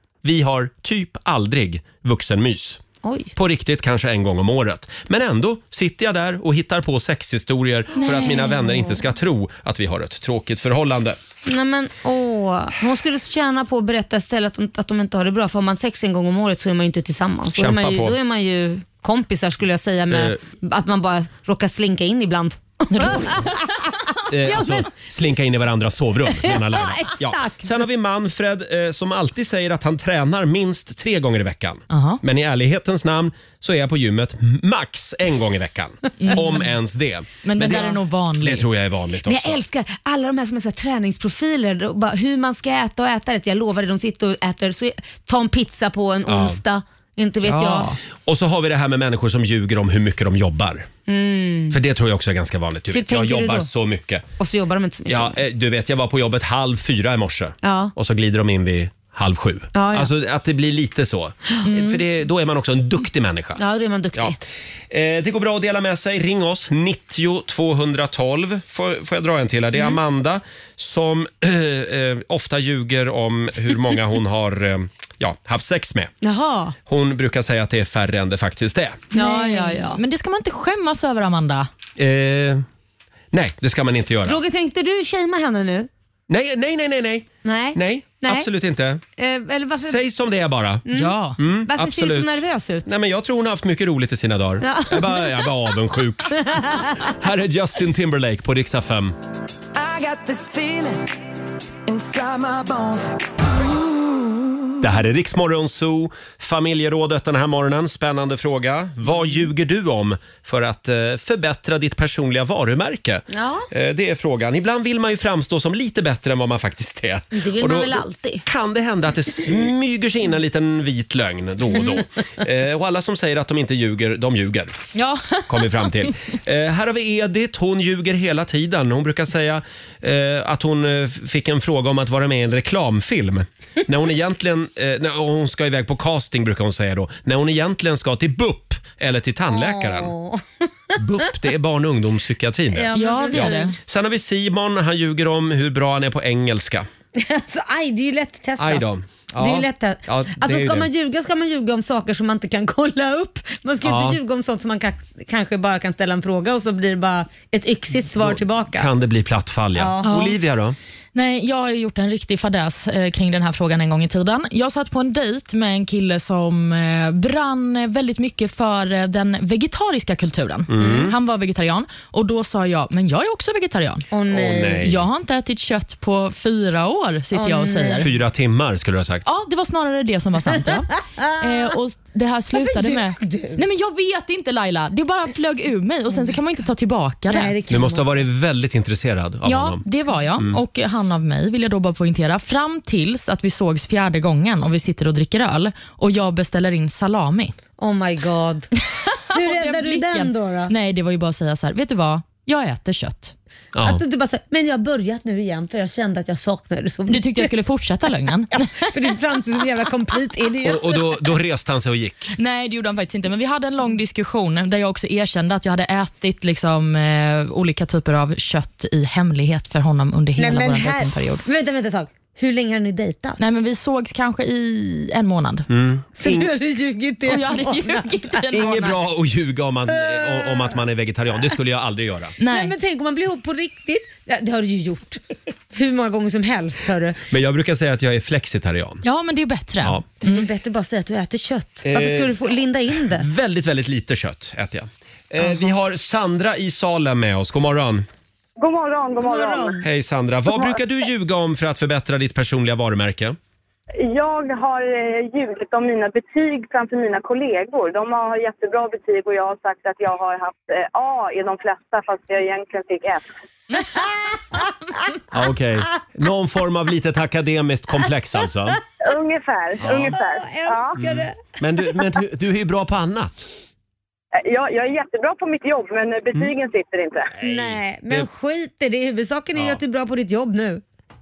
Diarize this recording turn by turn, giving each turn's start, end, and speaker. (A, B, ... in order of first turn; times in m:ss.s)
0:00.2-0:02.8 A
0:03.0-0:03.3 B
0:03.4-0:11.2 A
0:08.0-0:08.9 C
0:11.4-0:23.8 B
0:17.6-0:18.2 A
0:20.1-0:20.4 A
0:22.9-0:23.5 C
0:24.3-0:39.6 A
0:24.4-0:24.9 B
0:26.3-0:27.7 B
0:31.9-0:32.2 C
0:36.2-0:36.7 C
0:37.4-0:38.6 C
0:39.3-0:47.9 B
0:46.3-0:46.6 A
0:47.4-0:48.0 C
0:48.2-0:50.9 A
0:51.1-0:51.8 B
0:51.7-0:54.2 A
0:52.9-0:53.7 B
0:54.4-0:55.4 B
0:55.1-1:03.6 A
0:57.6-0:57.9 B
0:59.7-1:00.1 B
1:01.7-1:02.0 C
1:03.6-1:04.4 B
1:04.9-1:16.1 A
1:16.2-1:16.8 B
1:16.9-1:19.1 A
1:19.1-1:20.0 B
1:19.1-1:21.7 C
1:22.0-1:22.6 A
1:23.3-1:24.4 A
1:24.2-1:25.9 B
1:26.3-1:29.0 A
1:27.4-1:28.5 B
1:29.2-1:30.0 B
1:29.8-1:30.8 A
1:30.9-1:31.2 B
1:30.9-1:31.4 C
1:31.4-1:32.3 A
1:31.7-1:32.9 B
1:32.9-1:39.2 A
1:34.6-1:35.8 B
1:36.4-1:37.1 B
1:39.8-1:41.1 D
1:41.9-1:43.7 D
1:44.8-2:04.7 A
1:53.3-1:53.7 B
1:57.3-1:58.4 B
2:04.9-2:05.7 C
2:05.5-2:20.1 A
2:19.5-2:20.4 B
2:21.0-2:26.9 A
2:22.7-2:23.7 B
2:22.9-2:23.8 C
2:27.2-2:38.9 B
2:28.6-2:30.9 A
2:33.8-2:34.2 A
2:38.2-2:40.8 A
2:39.8-2:40.2 B
2:40.0-2:40.3 C
2:41.2-2:54.0 C
2:50.7-2:51.2 A
2:50.8-2:51.1 B
2:54.1-2:54.9 B
2:54.3-2:55.0 A
2:54.8-2:58.1 C
2:57.3-2:58.1 B
2:58.0-2:59.2 A
2:59.3-3:07.5 C
3:01.0-3:01.7 B
3:02.6-3:03.6 B
3:07.3-3:08.2 B
3:07.7-3:09.8 A
3:09.4-3:17.6 C
3:17.8-3:18.7 B
3:19.1-3:23.3 C
3:19.3-3:20.7 B
3:23.8-3:24.0 A
3:23.8-3:27.5 B
3:27.1-3:28.9 C
3:28.6-3:31.0 B
3:30.6-3:32.3 A
3:32.4-3:41.4 C
3:40.4-3:43.4 B
3:43.4-3:45.7 C
3:45.7-3:46.5 A
3:46.2-3:48.9 B
3:47.3-3:49.0 C
3:48.5-3:52.3 A
3:49.9-3:50.8 B
3:52.4-3:52.7 C
3:52.4-3:55.2 B
3:55.7-3:57.2 B
3:57.3-3:59.0 A
3:59.0-4:00.5 C
4:00.2-4:03.3 B
4:01.8-4:02.3 A
4:03.2-4:08.1 A
4:08.6-4:09.8 E
4:09.2-4:09.8 B
4:09.8-4:13.4 A
4:14.0-4:23.2 E
4:25.3-4:28.8 A
4:29.0-4:31.0 E
4:29.8-4:30.2 A
4:29.9-4:31.4 B
4:31.0-4:33.5 A
4:34.4-4:37.3 E
4:37.4-4:38.3 A
4:37.4-4:40.8 B